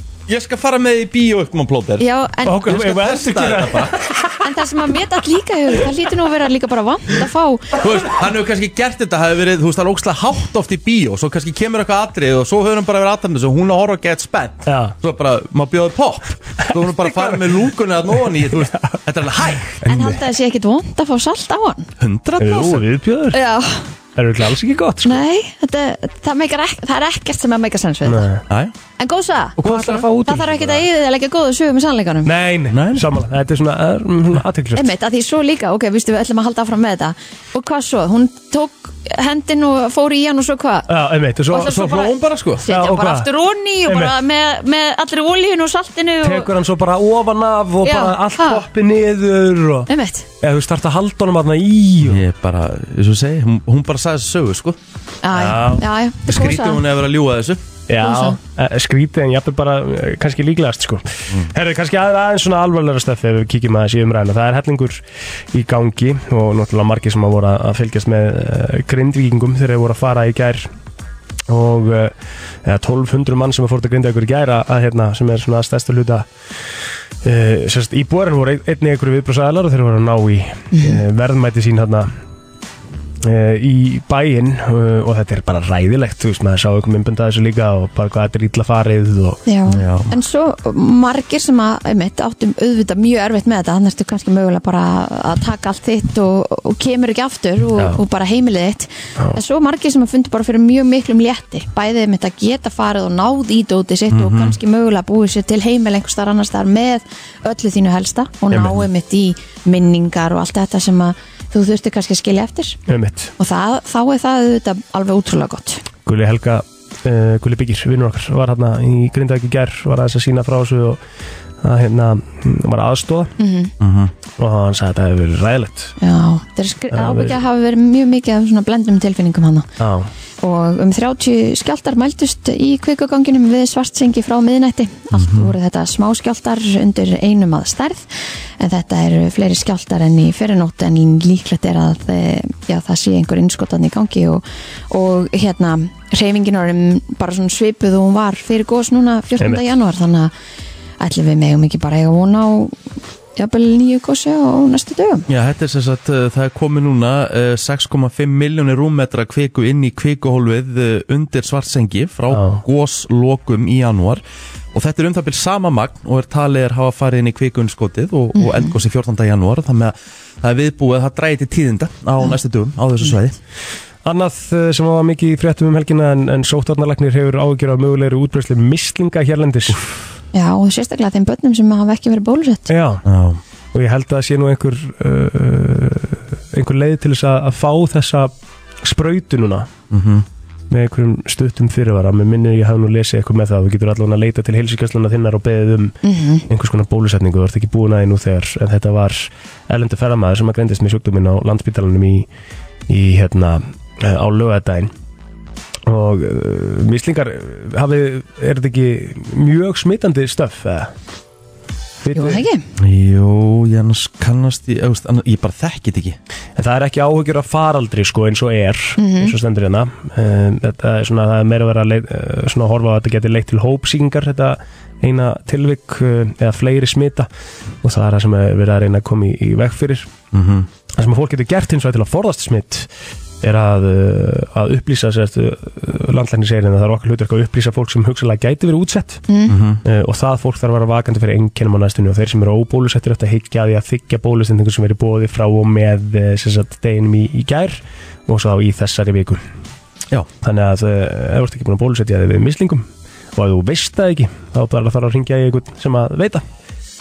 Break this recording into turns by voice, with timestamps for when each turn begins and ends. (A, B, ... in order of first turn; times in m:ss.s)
0:00.3-0:02.1 A
0:02.0-0:02.7 B
0:02.4-0:04.4 C
0:02.6-0:04.0 A
0:04.4-0:07.8 B
0:07.8-0:19.8 A
0:14.7-0:15.0 C
0:16.6-0:17.6 C
0:18.4-0:19.0 C
0:19.8-0:20.2 C
0:19.9-0:21.9 B
0:22.0-0:22.8 A
0:22.4-0:23.4 C
0:23.3-0:23.9 B
0:24.2-0:25.2 C
0:25.0-0:28.3 B
0:28.0-0:28.4 C
0:29.0-0:32.3 B
0:29.6-0:30.0 A
0:29.6-0:30.8 C
0:32.2-0:34.9 C
0:32.7-0:33.1 A
0:34.8-0:40.9 B
0:40.9-0:41.9 C
0:41.5-0:46.5 B
0:41.6-0:42.6 A
0:42.6-0:43.3 C
0:43.9-0:44.2 C
0:46.2-0:49.9 C
0:47.8-0:48.6 B
0:49.9-0:50.3 B
0:50.4-0:52.2 C
0:52.0-0:54.8 A
0:55.2-0:56.8 B
0:55.3-0:57.6 A
0:57.9-1:10.7 C
0:58.0-0:58.4 B
1:11.5-1:16.3 C
1:17.2-1:22.1 C
1:20.7-1:21.0 B
1:23.2-1:29.4 C
1:29.5-1:52.8 B
1:29.7-1:30.1 A
1:44.1-1:44.6 A
1:48.5-1:48.8 C
1:52.9-1:53.3 C
1:53.4-1:55.8 B
1:56.1-2:01.0 C
2:01.6-2:03.3 C
2:03.4-2:03.7 B
2:03.8-2:04.1 A
2:04.4-2:06.0 C
2:06.0-2:09.7 B
2:06.9-2:07.4 C
2:09.8-2:10.1 C
2:10.4-2:18.1 B
2:15.1-2:15.5 A
2:18.6-2:30.3 B
2:29.4-2:29.6 C
2:31.0-2:32.8 B
2:33.4-2:35.2 B
2:35.3-2:44.2 A
2:42.3-2:42.6 C
2:44.7-2:53.4 A
2:48.4-2:48.7 B
2:54.0-2:59.8 C
3:00.3-3:02.7 B
3:02.7-3:03.0 C
3:03.0-3:03.4 A
3:03.7-3:09.7 C
3:09.9-3:10.2 A
3:10.7-3:16.0 C
3:16.0-3:16.4 B
3:16.5-3:22.3 C
3:22.9-3:24.9 C
3:25.9-3:30.9 C
3:32.0-3:32.4 C
3:32.1-3:32.6 B
3:32.8-3:36.2 A
3:36.6-3:47.3 C
3:39.0-3:39.3 B
3:47.8-3:50.1 C
3:50.3-3:50.7 A
3:51.0-3:52.9 C
3:53.4-3:59.2 C
3:59.3-3:59.6 B
3:59.5-3:59.8 A
3:59.8-4:09.4 C
4:10.4-4:16.4 C